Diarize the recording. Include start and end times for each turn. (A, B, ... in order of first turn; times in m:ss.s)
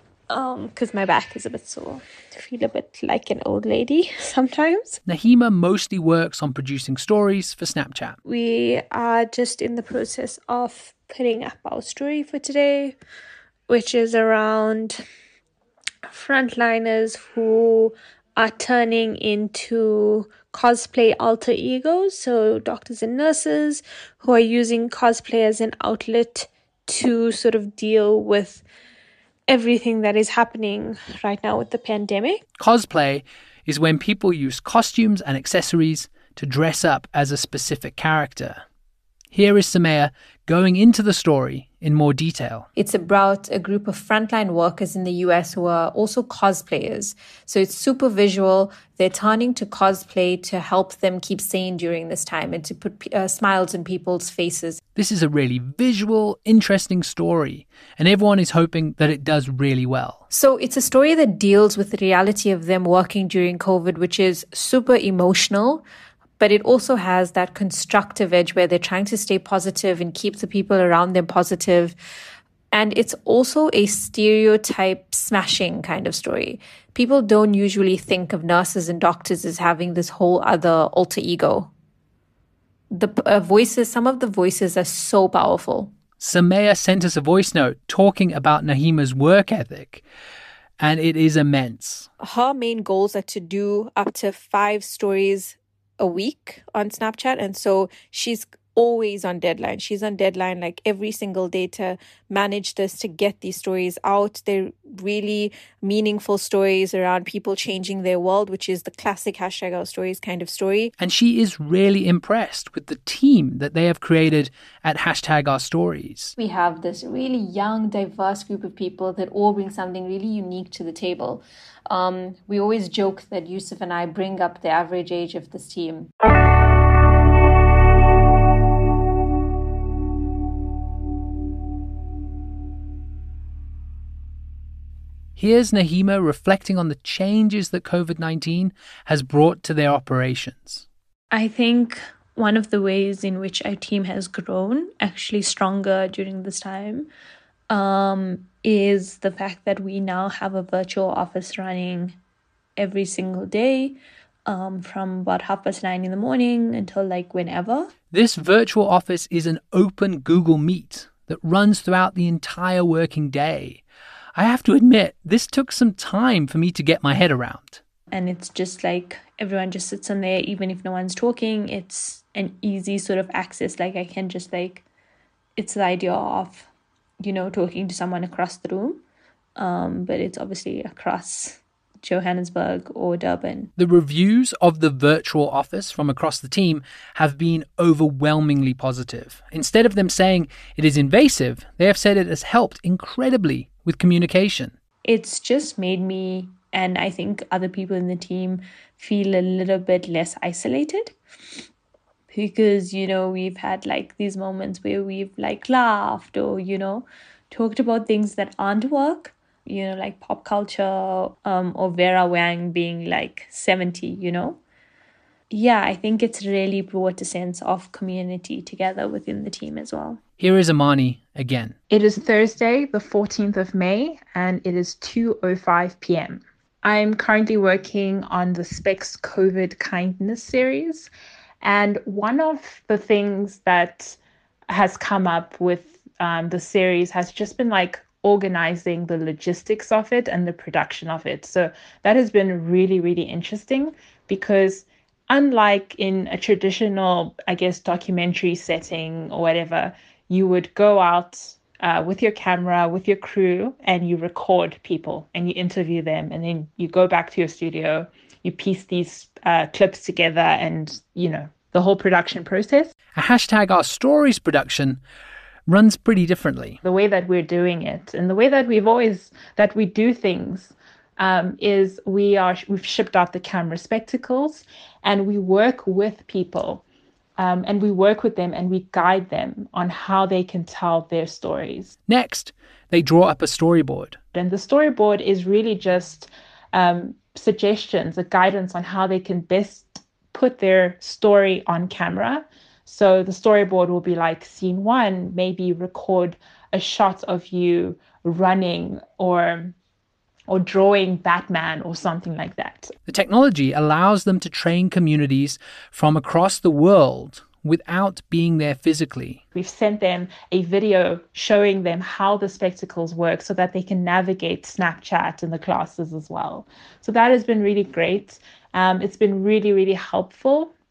0:00.3-0:05.0 A
0:05.0-0:08.2 B
0:08.2-0:13.0 A
0:13.7-0:15.0 A
0:16.0-0:28.6 A
0:29.5-0:32.4 A
0:32.6-0:38.6 B
0:39.3-0:42.7 B
0:42.8-0:54.8 C
0:55.0-1:00.2 B
1:00.3-1:05.8 C
1:06.4-1:12.0 C
1:12.7-1:21.7 C
1:22.9-1:25.9 C
1:26.2-1:30.0 B
1:30.8-1:32.1 B
1:32.2-1:50.9 C
1:51.0-1:56.3 B
1:56.4-2:06.1 C
2:15.4-2:20.8 B
2:21.3-2:27.1 A
2:27.7-2:32.2 A
2:32.8-2:37.9 A
2:38.1-2:43.8 B
2:44.4-2:47.8 B
2:48.1-2:54.8 A
2:55.6-2:56.7 A
2:57.2-2:59.0 A
2:59.6-3:03.7 A
3:03.8-3:14.7 B
3:15.0-3:21.1 A
3:22.3-3:34.6 A
3:35.5-3:40.2 A
3:40.4-3:41.8 B
3:41.9-3:51.1 D
3:51.6-3:54.2 D
3:54.7-4:22.9 D
4:23.2-4:25.0 B
4:25.7-4:26.8 B
4:26.8-4:36.8 D
4:37.4-4:41.9 D
4:42.1-4:44.2 B
4:44.3-4:59.7 D
5:00.5-5:02.9 D
5:03.1-5:09.4 B
5:09.5-5:20.7 D